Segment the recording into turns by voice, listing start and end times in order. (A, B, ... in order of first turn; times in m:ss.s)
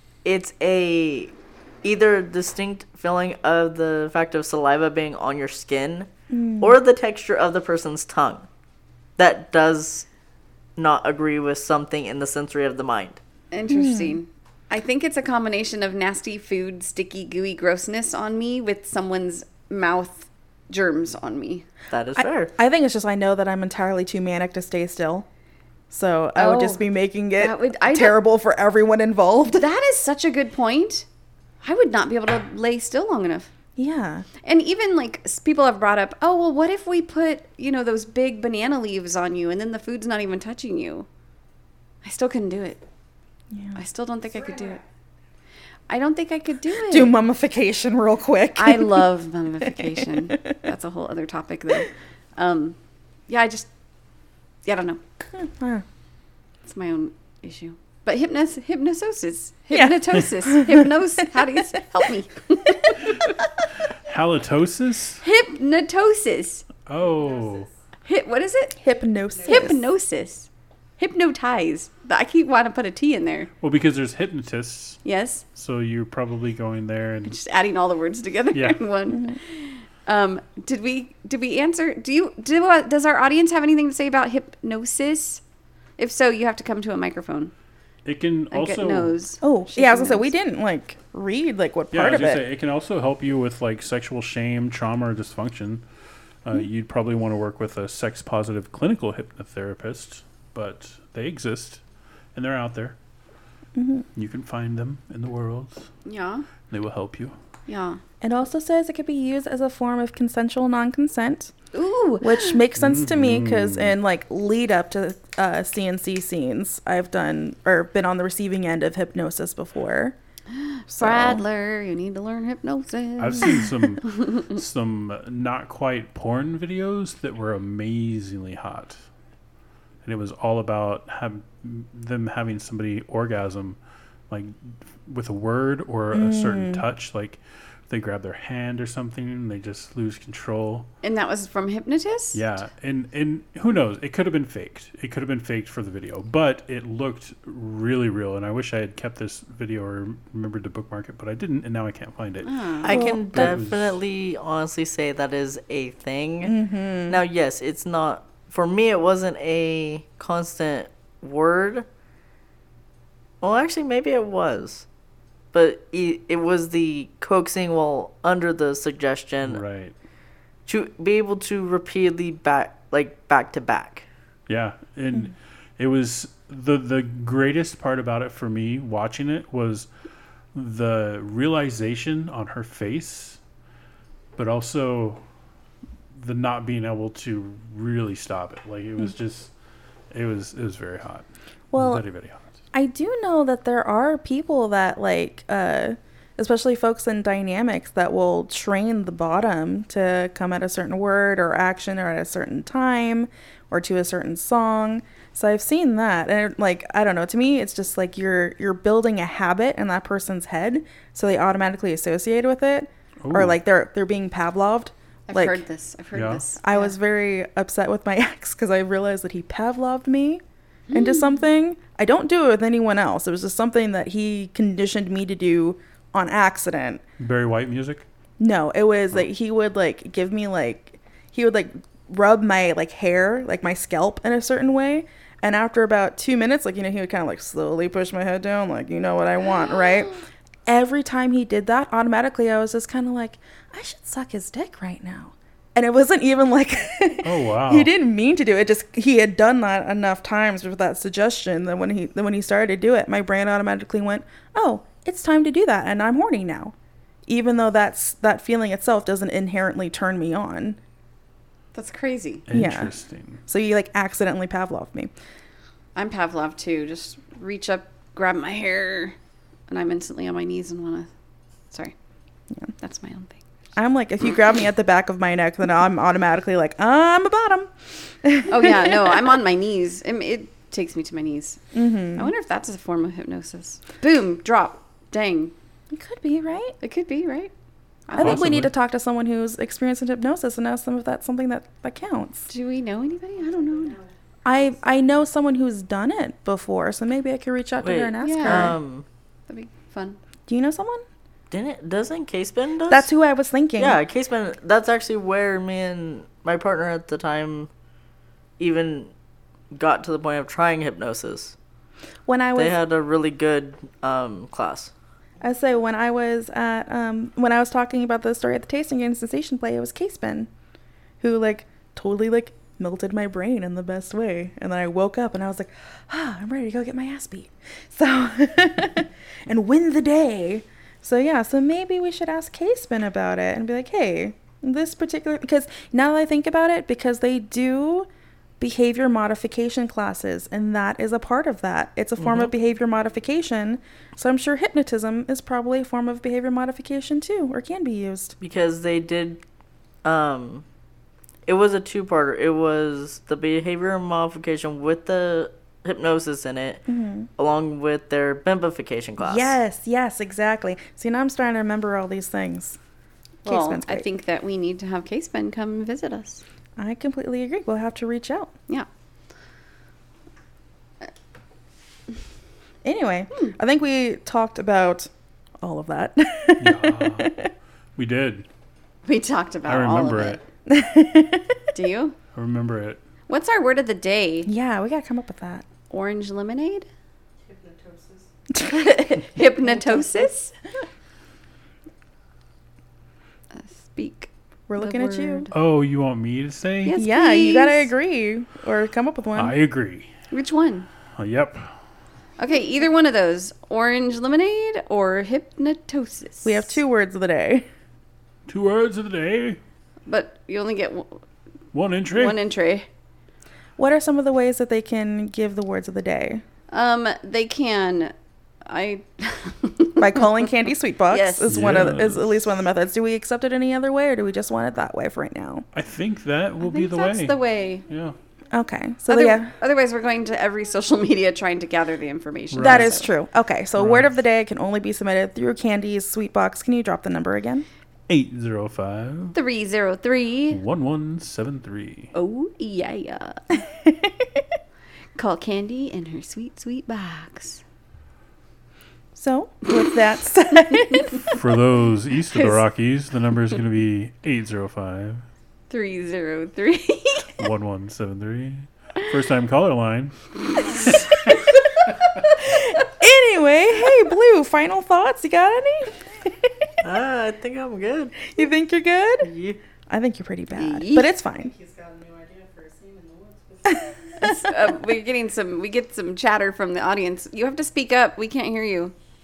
0:00.2-0:06.1 A
0:06.3-0:06.8 B
0:06.6-0:08.5 A
0:09.2-0:10.1 A
0:10.8-0:13.2 A
0:13.5-0:21.7 C
0:13.7-0:14.2 B
0:21.9-0:22.5 A
0:22.2-0:25.3 B
0:25.9-0:29.7 B
0:26.4-0:26.8 C
0:27.4-0:28.2 C
0:29.5-0:31.1 C
0:31.6-0:33.5 C
0:33.8-0:34.3 B
0:34.4-0:41.1 C
0:42.0-0:42.8 C
0:43.5-0:43.8 B
0:43.8-0:44.8 C
0:44.3-0:44.8 D
0:45.9-0:47.1 C
0:46.9-0:50.5 B
0:48.6-0:52.8 C
0:53.3-0:53.7 C
0:54.6-0:55.0 C
0:55.4-0:55.8 B
0:56.6-1:03.4 C
0:59.7-1:01.4 B
1:03.0-1:03.4 E
1:04.1-1:05.2 E
1:05.2-1:06.6 C
1:06.9-1:07.7 E
1:07.0-1:07.7 D
1:08.0-1:08.8 C
1:08.8-1:09.8 B
1:09.4-1:09.7 D
1:09.4-1:13.5 C
1:13.6-1:15.0 E
1:15.0-1:15.4 C
1:15.6-1:17.3 E
1:17.2-1:25.4 C
1:18.5-1:18.8 E
1:26.0-1:27.5 C
1:28.0-1:29.2 E
1:28.5-1:30.3 C
1:29.4-1:32.4 B
1:31.9-1:35.8 E
1:36.4-1:41.8 E
1:42.4-1:43.0 E
1:43.8-1:44.1 B
1:44.2-1:45.9 E
1:46.1-1:46.5 C
1:46.7-1:47.3 E
1:47.7-1:48.0 C
1:48.2-1:51.5 B
1:51.7-1:52.6 C
1:52.2-2:00.2 B
1:52.8-1:53.9 E
2:00.6-2:03.7 C
2:00.9-2:01.4 B
2:03.2-2:09.0 E
2:10.0-2:13.8 E
2:14.3-2:20.9 E
2:16.1-2:16.8 B
2:21.0-2:22.4 C
2:22.3-2:34.0 E
2:32.4-2:33.0 C
2:32.8-2:36.6 A
2:32.9-2:33.6 B
2:36.4-2:37.2 B
2:37.1-2:41.9 A
2:43.4-2:44.8 A
2:45.5-2:49.6 A
2:49.4-2:49.9 E
2:50.7-2:54.1 A
2:54.5-2:59.9 E
3:00.5-3:03.4 E
3:04.4-3:05.2 E
3:06.1-3:09.5 E
3:10.1-3:12.4 E
3:11.7-3:12.0 B
3:12.7-3:35.6 B
3:33.2-3:33.6 E
3:35.3-3:37.0 C
3:36.1-3:36.4 E
3:36.6-3:47.0 B
3:40.9-3:41.4 C
3:47.2-3:48.0 E
3:48.4-4:16.7 B
4:07.2-4:07.9 E
4:17.3-4:20.8 B
4:21.7-4:22.5 C
4:22.5-4:23.4 E
4:22.5-4:22.9 B
4:23.5-4:25.1 B
4:26.0-4:29.2 C
4:29.7-4:31.1 C
4:32.8-4:33.4 C
4:33.8-4:37.7 B
4:38.2-4:39.3 B
4:38.5-4:41.6 C
4:41.7-4:42.3 B
4:42.2-4:45.5 C
4:45.9-4:46.8 B
4:46.8-4:47.5 C
4:48.1-4:48.5 C
4:48.2-4:52.5 B
4:48.2-4:48.7 E
4:52.5-4:54.0 C
4:53.4-4:54.8 D
4:54.4-4:58.8 B
4:57.8-4:59.0 A
4:58.2-4:58.8 C
4:59.5-5:00.2 C
5:00.5-5:01.0 B
5:01.5-5:03.1 A
5:02.9-5:04.0 B
5:03.8-5:07.7 A
5:08.6-5:09.1 A
5:09.7-5:11.6 A
5:12.3-5:12.8 B
5:12.6-5:14.9 A
5:15.4-5:20.5 B
5:21.2-5:38.1 B
5:38.6-5:48.4 B
5:42.2-5:42.5 E
5:48.4-5:49.4 A
5:50.0-5:50.6 A
5:51.5-5:56.8 A
5:56.9-5:57.3 B
5:57.4-5:59.5 A
5:59.2-6:02.8 B
6:03.4-6:04.1 B
6:03.4-6:06.4 C
6:06.8-6:08.5 B
6:12.8-6:15.1 B
6:15.6-6:17.5 B
6:16.6-6:17.4 E
6:18.0-6:18.4 E
6:19.1-6:20.4 C
6:19.7-6:20.4 E
6:20.7-6:21.6 B
6:21.7-6:22.2 C
6:22.3-6:23.0 E
6:23.3-6:24.5 C
6:24.5-6:25.6 B
6:25.9-6:26.9 C
6:27.4-6:28.3 D
6:28.6-6:30.5 C
6:29.6-6:30.3 D
6:33.6-6:35.5 C
6:34.7-6:35.5 B
6:35.5-6:37.0 E
6:36.8-6:37.9 C
6:37.0-6:39.6 B
6:39.4-6:40.1 E
6:40.3-6:40.9 C
6:41.2-6:41.7 E
6:42.4-6:46.8 C
6:46.4-6:47.7 B
6:48.5-6:49.6 E
6:50.1-6:51.2 C
6:51.7-6:52.4 E
6:52.1-6:52.9 C
6:53.8-6:56.4 B
6:56.7-6:58.1 C
6:58.7-7:00.3 C
7:00.0-7:05.7 B
7:01.1-7:01.8 C
7:01.5-7:02.5 E
7:05.7-7:08.2 E
7:06.6-7:07.8 C
7:08.5-7:09.5 B
7:09.1-7:13.1 C
7:12.5-7:13.0 E
7:12.6-7:17.7 B
7:13.8-7:14.1 E
7:18.1-7:19.4 E
7:19.3-7:20.6 C
7:20.5-7:22.1 E
7:22.2-7:23.5 C
7:23.9-7:24.4 B
7:25.2-7:27.6 C
7:29.2-7:31.3 B
7:31.3-7:35.2 E
7:35.7-7:37.3 C
7:37.4-7:41.2 E
7:42.4-7:46.7 B
7:46.8-7:48.3 A
7:48.3-7:49.3 B
7:49.2-7:49.6 A
7:49.9-7:51.5 B
7:50.5-7:51.1 C
7:51.4-7:54.4 D
7:54.2-7:58.9 C